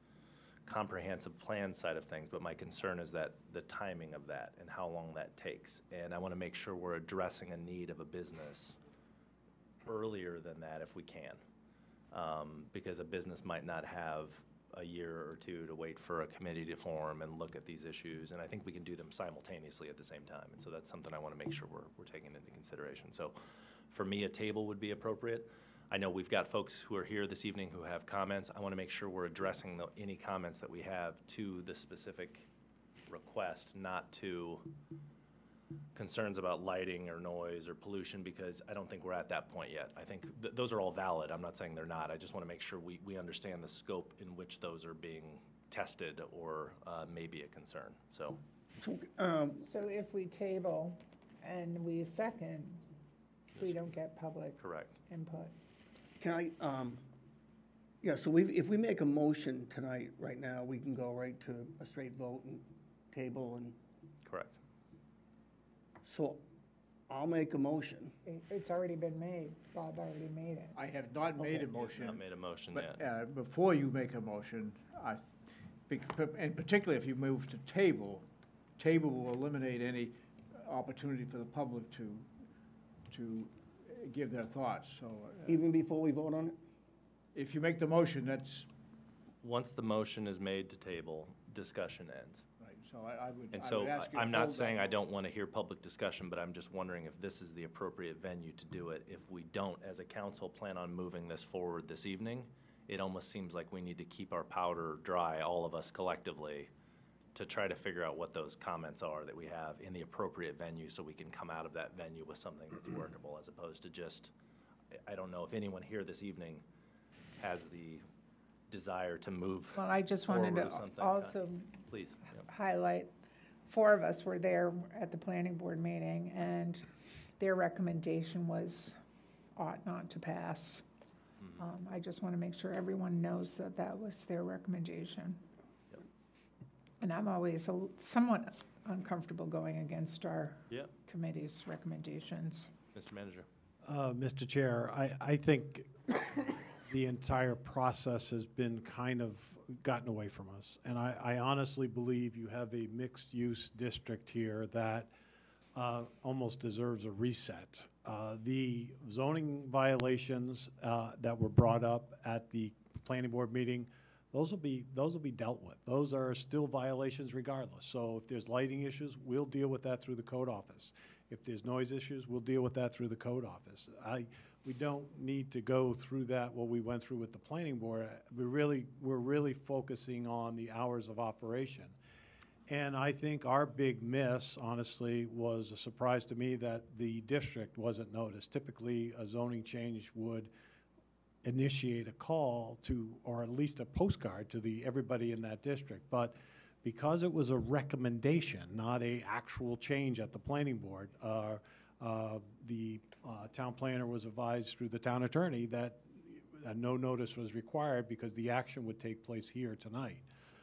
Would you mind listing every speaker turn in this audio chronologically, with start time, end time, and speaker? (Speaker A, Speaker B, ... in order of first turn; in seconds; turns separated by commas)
Speaker A: 0.7-8.8, Speaker A: 9.9-11.4, Speaker A: 12.1-23.4, Speaker A: 23.9-32.5, Speaker A: 33.1-34.7, Speaker A: 36.0-48.4, Speaker B: 48.8-49.6, Speaker C: 49.6-52.8, Speaker C: 53.6-55.5, Speaker A: 53.6-53.9, Speaker A: 54.6-55.0, Speaker B: 56.2-57.0, Speaker B: 58.0-63.8, Speaker A: 64.2-64.6, Speaker B: 66.0-66.4, Speaker B: 67.1-68.1, Speaker C: 68.3-70.8, Speaker D: 70.8-75.4, Speaker A: 71.8-73.0, Speaker D: 75.9-78.3, Speaker D: 78.8-82.3, Speaker D: 83.1-85.6, Speaker B: 85.5-86.6, Speaker D: 87.3-88.7, Speaker A: 89.4-92.4, Speaker D: 92.6-95.0, Speaker A: 93.5-106.7, Speaker A: 107.3-114.3, Speaker A: 115.0-116.6, Speaker A: 117.4-118.0, Speaker A: 118.7-122.4, Speaker C: 119.8-123.1, Speaker C: 123.7-129.0, Speaker C: 129.6-130.8, Speaker C: 131.6-135.4, Speaker C: 137.0-142.7, Speaker A: 142.9-143.5, Speaker E: 143.8-155.1, Speaker E: 155.8-181.9, Speaker E: 182.7-190.5, Speaker E: 191.4-210.2